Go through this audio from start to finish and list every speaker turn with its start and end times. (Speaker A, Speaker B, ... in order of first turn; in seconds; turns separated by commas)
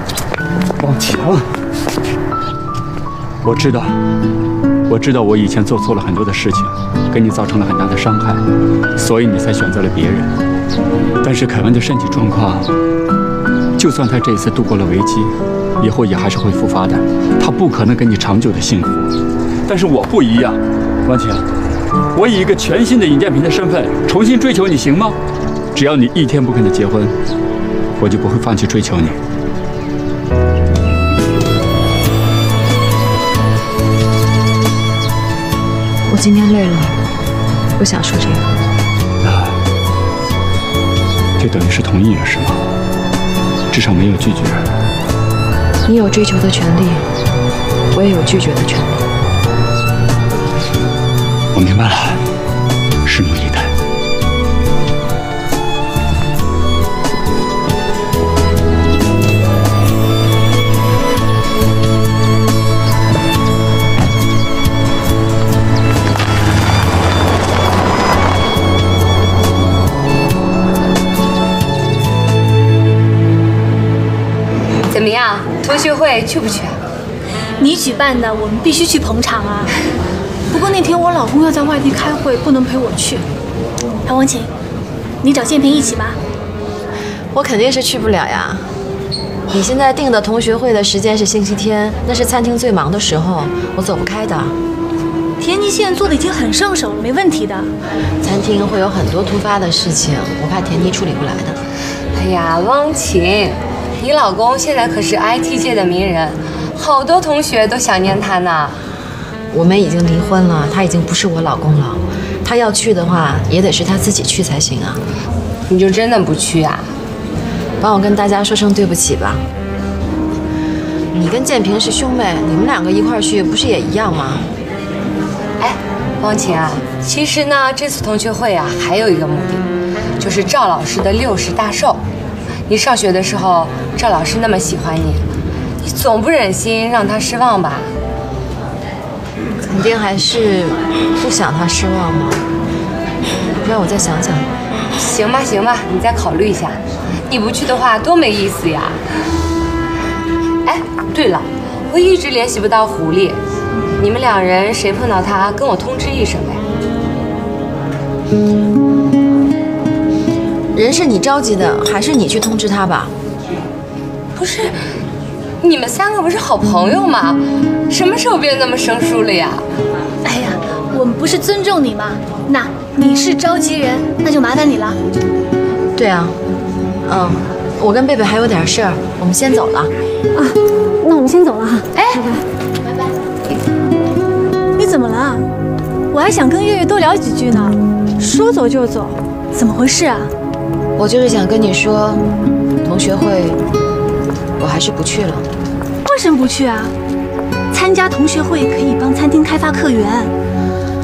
Speaker A: 0.8-1.5, Speaker A: 3.4-4.0, Speaker A: 4.9-8.4, Speaker A: 9.0-10.3, Speaker A: 11.2-12.7, Speaker A: 13.8-19.1, Speaker A: 19.7-21.5, Speaker A: 22.1-25.2, Speaker A: 25.7-27.1, Speaker A: 28.0-29.2, Speaker B: 36.1-37.0, Speaker B: 37.8-38.5, Speaker A: 39.2-39.5, Speaker A: 41.4-42.6, Speaker A: 43.7-44.6, Speaker B: 45.9-47.0, Speaker B: 47.9-49.1, Speaker A: 51.5-52.2, Speaker A: 53.0-53.7, Speaker C: 74.9-76.8, Speaker D: 77.6-79.7, Speaker D: 80.5-83.3, Speaker D: 84.0-84.5, Speaker D: 85.2-86.2, Speaker B: 87.3-88.7, Speaker B: 89.5-94.6, Speaker D: 95.4-97.7, Speaker B: 98.2-101.6, Speaker C: 102.1-108.8, Speaker B: 109.5-115.0, Speaker C: 115.7-116.9, Speaker B: 117.8-119.4, Speaker B: 121.1-124.5, Speaker C: 125.6-129.7, Speaker C: 130.2-132.0, Speaker C: 132.7-135.2, Speaker C: 135.8-137.9, Speaker B: 139.6-142.4, Speaker B: 143.6-144.5, Speaker C: 144.9-149.0, Speaker C: 150.7-153.4, Speaker C: 154.0-156.6, Speaker B: 160.8-163.1, Speaker D: 164.4-164.7, Speaker C: 165.6-169.6, Speaker D: 170.2-175.0, Speaker B: 176.0-176.3, Speaker B: 177.1-179.9, Speaker D: 180.3-182.4, Speaker D: 184.8-185.4, Speaker D: 186.1-190.3, Speaker B: 191.0-192.2, Speaker B: 192.8-193.6, Speaker B: 194.6-195.5, Speaker D: 196.1-196.9, Speaker D: 197.7-200.3